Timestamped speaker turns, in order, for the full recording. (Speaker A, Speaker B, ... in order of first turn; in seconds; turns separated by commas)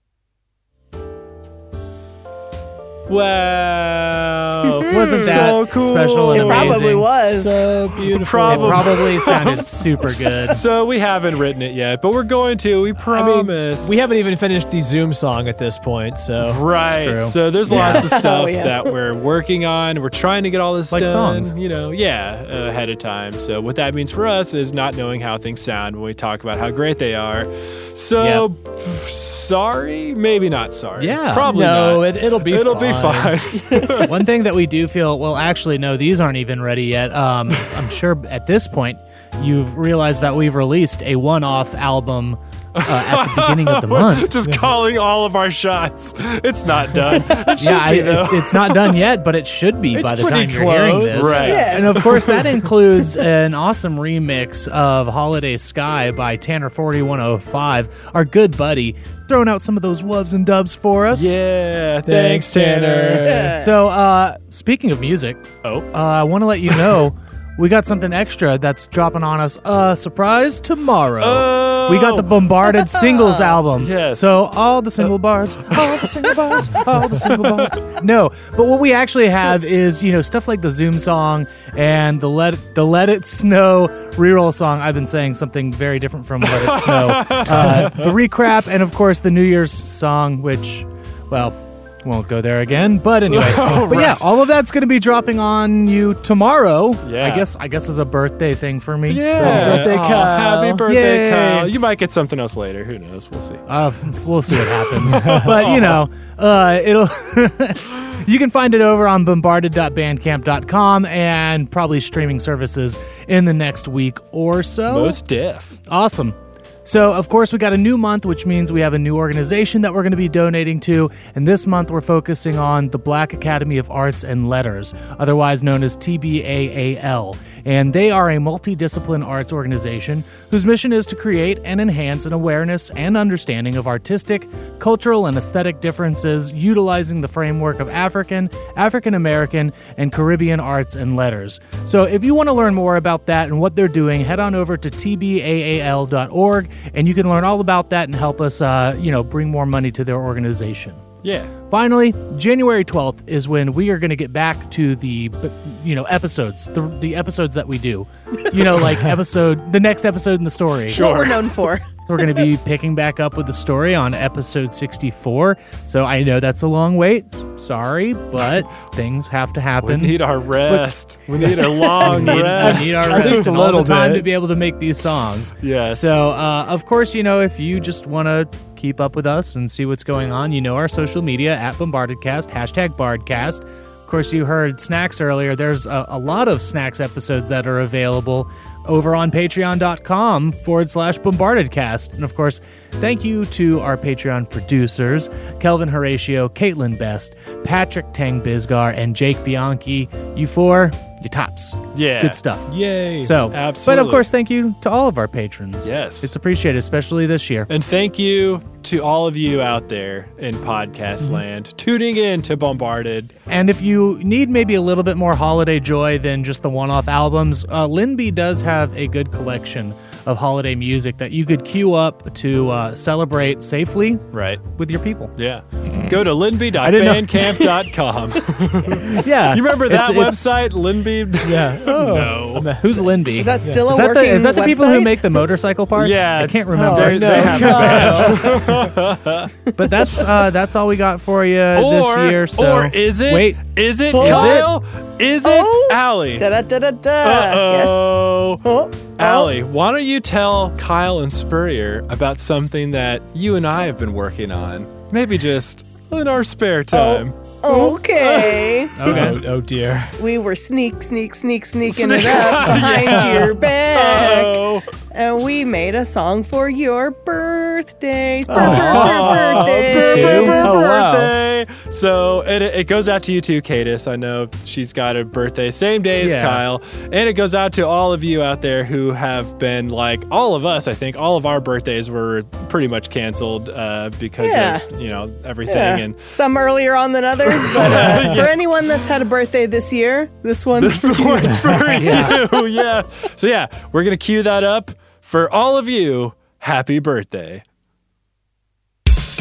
Speaker A: 3.1-6.9, Speaker B: 4.6-5.5, Speaker C: 4.9-7.1, Speaker B: 6.3-7.5, Speaker D: 7.2-9.1, Speaker A: 8.1-13.9, Speaker C: 8.5-10.6, Speaker D: 13.1-16.6, Speaker A: 16.4-34.1, Speaker C: 16.9-18.1, Speaker B: 17.7-18.9, Speaker C: 20.9-21.5, Speaker C: 28.2-28.4, Speaker C: 31.0-31.5, Speaker D: 31.4-33.4, Speaker C: 34.0-44.4, Speaker A: 42.8-49.0, Speaker C: 47.5-61.4, Speaker D: 49.9-52.0, Speaker A: 51.1-52.6, Speaker B: 51.4-52.0, Speaker A: 61.1-63.5, Speaker D: 62.0-63.6, Speaker B: 63.2-63.7, Speaker C: 63.5-99.9, Speaker A: 71.2-72.5, Speaker B: 73.0-73.5, Speaker A: 73.6-74.4, Speaker A: 75.7-77.3, Speaker A: 86.4-88.2, Speaker A: 93.3-94.2, Speaker A: 97.0-97.5, Speaker A: 99.1-103.6, Speaker D: 99.3-100.8, Speaker C: 100.8-101.7, Speaker C: 103.7-115.2, Speaker A: 104.5-106.0, Speaker A: 114.9-115.7, Speaker C: 115.9-151.0, Speaker A: 151.2-151.5, Speaker C: 151.7-161.1, Speaker A: 160.9-161.7, Speaker B: 160.9-161.9, Speaker C: 162.1-207.7, Speaker A: 169.8-173.5, Speaker D: 172.0-174.3, Speaker A: 175.6-176.2, Speaker A: 201.9-202.4, Speaker D: 202.7-203.4, Speaker A: 203.5-204.3, Speaker A: 205.8-206.3, Speaker A: 207.7-213.3, Speaker C: 213.5-225.3, Speaker A: 224.3-224.6, Speaker A: 225.4-232.7, Speaker C: 226.8-227.8, Speaker C: 228.9-230.5, Speaker D: 231.4-233.1, Speaker C: 232.8-238.9, Speaker B: 233.3-235.3, Speaker A: 235.9-239.5, Speaker D: 236.7-238.9, Speaker C: 239.8-243.6, Speaker A: 241.7-246.5, Speaker B: 244.1-244.7, Speaker C: 244.1-244.7, Speaker B: 245.4-248.1, Speaker A: 247.2-248.6, Speaker B: 248.6-249.5, Speaker A: 249.2-259.4, Speaker B: 256.9-259.0, Speaker C: 259.0-259.4, Speaker D: 259.0-260.1, Speaker B: 260.2-271.1, Speaker A: 261.9-264.9, Speaker D: 262.7-263.5, Speaker D: 268.5-271.3, Speaker A: 268.5-286.2, Speaker C: 268.6-269.1, Speaker C: 269.9-270.8, Speaker C: 276.2-276.6, Speaker B: 284.4-284.9, Speaker B: 285.6-292.4, Speaker A: 287.4-288.6, Speaker A: 290.8-297.6, Speaker C: 291.9-292.4